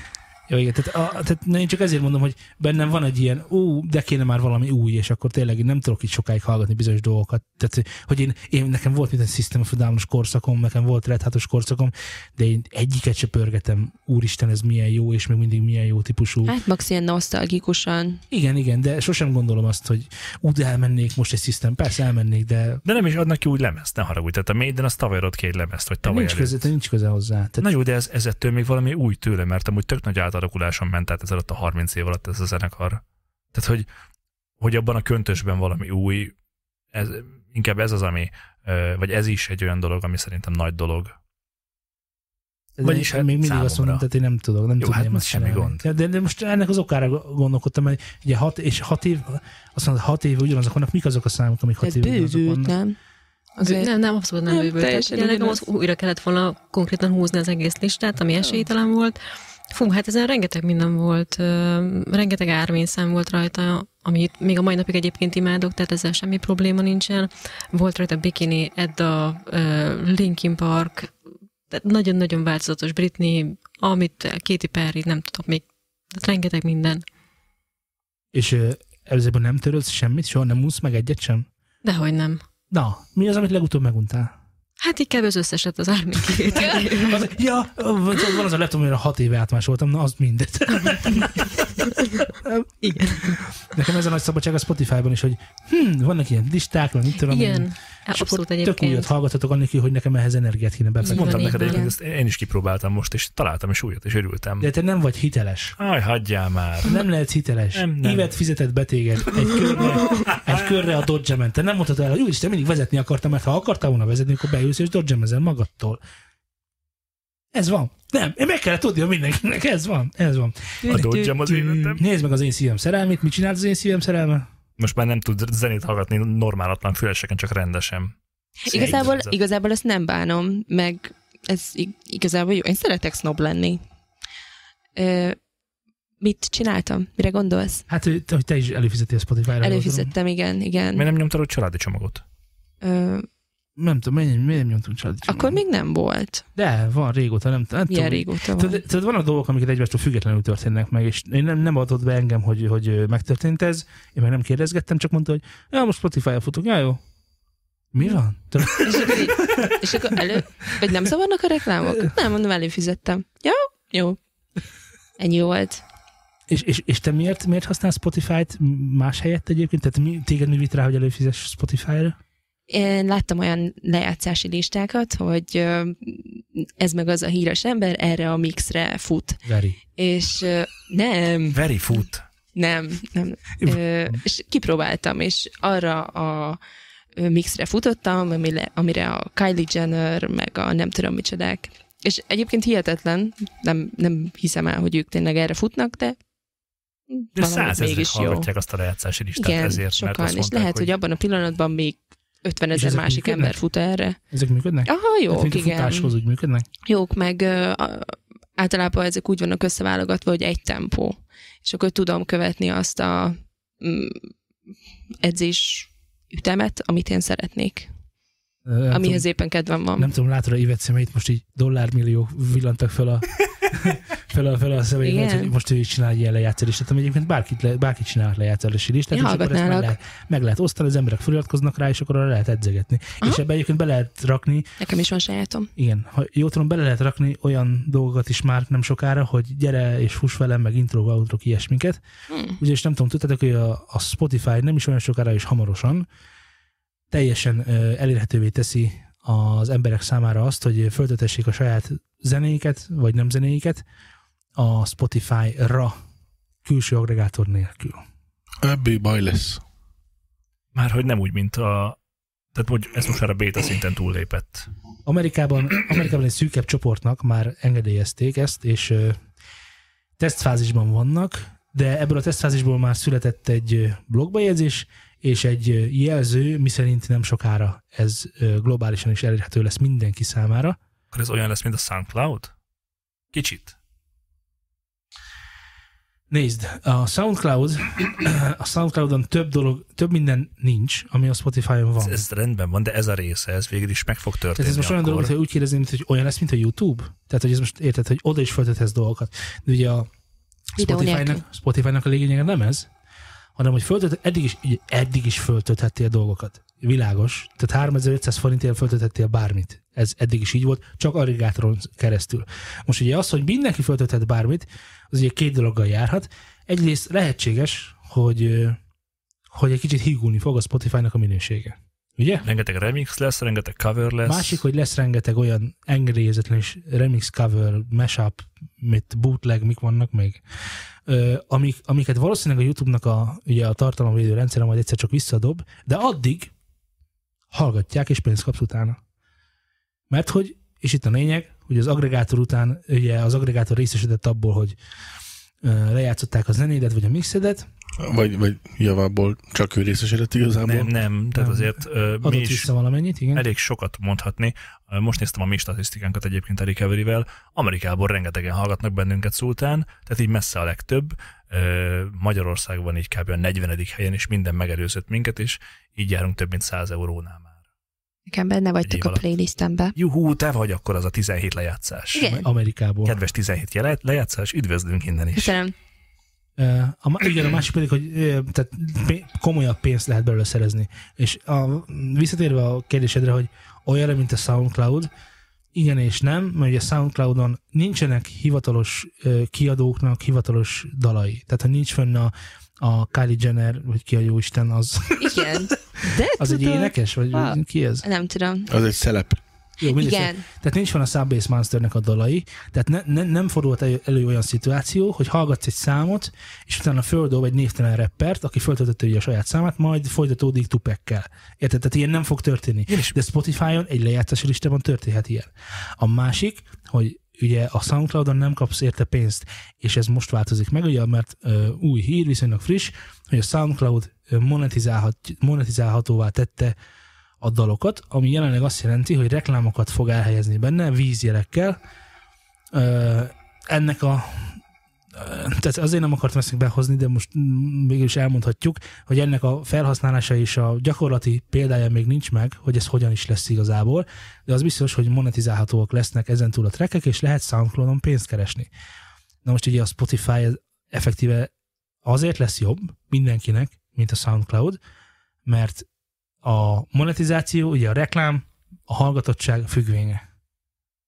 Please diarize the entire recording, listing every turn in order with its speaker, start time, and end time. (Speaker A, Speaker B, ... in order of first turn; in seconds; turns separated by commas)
Speaker A: 0.5-16.6, Speaker B: 16.5-18.2, Speaker A: 18.3-22.8, Speaker C: 22.9-26.6, Speaker A: 26.0-27.7, Speaker C: 27.6-33.0, Speaker C: 33.5-33.9, Speaker C: 34.6-36.3, Speaker C: 36.9-41.1, Speaker A: 42.8-52.7, Speaker C: 42.8-44.0, Speaker C: 44.8-45.8, Speaker B: 51.8-53.0, Speaker B: 53.6-53.9, Speaker D: 53.6-59.2, Speaker B: 54.5-55.6, Speaker D: 59.7-71.1, Speaker D: 71.7-77.0, Speaker A: 78.3-81.5, Speaker D: 81.8-82.4, Speaker A: 82.7-84.3, Speaker D: 84.8-87.2, Speaker A: 86.7-101.7, Speaker D: 92.8-93.4, Speaker D: 97.3-99.1, Speaker D: 101.1-101.9, Speaker C: 101.1-104.7, Speaker B: 101.3-101.9, Speaker A: 104.6-105.8, Speaker C: 105.8-107.0, Speaker A: 106.8-116.0, Speaker C: 107.7-108.3, Speaker C: 110.3-110.7, Speaker A: 117.5-124.5, Speaker B: 120.8-121.4, Speaker C: 120.9-122.0, Speaker C: 124.8-128.1, Speaker B: 128.6-133.8, Speaker C: 128.7-129.3, Speaker B: 135.0-135.4, Speaker B: 136.2-137.8, Speaker A: 137.9-140.1, Speaker B: 139.6-141.1, Speaker C: 141.0-142.2, Speaker B: 142.8-143.3, Speaker A: 143.8-145.6, Speaker B: 145.3-146.4, Speaker A: 146.6-157.0, Speaker B: 147.9-148.8, Speaker A: 157.9-160.4, Speaker B: 158.8-164.2, Speaker B: 165.2-165.8, Speaker A: 166.5-172.2, Speaker B: 172.7-179.4, Speaker A: 179.4-179.8, Speaker B: 179.9-181.6, Speaker C: 181.5-182.2, Speaker B: 182.6-186.6, Speaker A: 183.6-184.2, Speaker B: 187.2-196.2, Speaker B: 197.1-198.5, Speaker C: 197.4-200.9, Speaker B: 199.4-204.2, Speaker A: 202.7-203.6, Speaker A: 204.3-206.7, Speaker B: 204.8-206.1, Speaker B: 206.8-214.3, Speaker B: 215.2-217.9, Speaker A: 218.7-219.2, Speaker B: 218.9-220.1, Speaker A: 220.0-234.7, Speaker B: 225.0-225.5, Speaker B: 229.1-229.9, Speaker B: 234.8-235.7, Speaker A: 235.8-242.0, Speaker B: 242.3-242.6, Speaker A: 242.6-246.1, Speaker A: 247.1-253.8, Speaker A: 254.6-255.9, Speaker A: 256.6-258.0, Speaker E: 258.6-259.6, Speaker C: 260.7-262.0, Speaker C: 262.5-264.7, Speaker A: 265.1-269.2, Speaker A: 270.2-280.8, Speaker C: 281.1-282.5, Speaker C: 283.3-283.8, Speaker A: 286.3-292.2, Speaker C: 292.0-295.3, Speaker A: 294.6-300.1, Speaker A: 300.8-302.9, Speaker B: 300.8-301.4, Speaker A: 303.6-318.8, Speaker A: 319.5-322.5, Speaker C: 322.4-324.6, Speaker A: 324.2-330.4, Speaker A: 331.1-336.5, Speaker A: 337.5-339.0, Speaker A: 340.1-344.8, Speaker A: 345.6-347.6, Speaker E: 348.0-350.9, Speaker C: 350.6-352.7, Speaker A: 351.4-353.4, Speaker C: 353.3-367.5, Speaker B: 368.3-369.9, Speaker C: 368.8-369.2, Speaker C: 369.9-372.4, Speaker B: 372.1-372.4, Speaker A: 372.3-373.1, Speaker C: 373.1-375.6, Speaker B: 375.4-375.7, Speaker A: 376.6-385.1, Speaker A: 385.7-398.1, Speaker B: 395.2-398.7, Speaker E: 398.7-399.4, Speaker A: 399.8-426.8, Speaker B: 399.8-400.4, Speaker C: 412.9-413.2, Speaker A: 427.4-431.8, Speaker A: 432.7-434.6, Speaker A: 435.1-448.7, Speaker A: 449.4-451.5, Speaker A: 452.1-454.8, Speaker A: 455.5-455.9, Speaker A: 456.4-460.2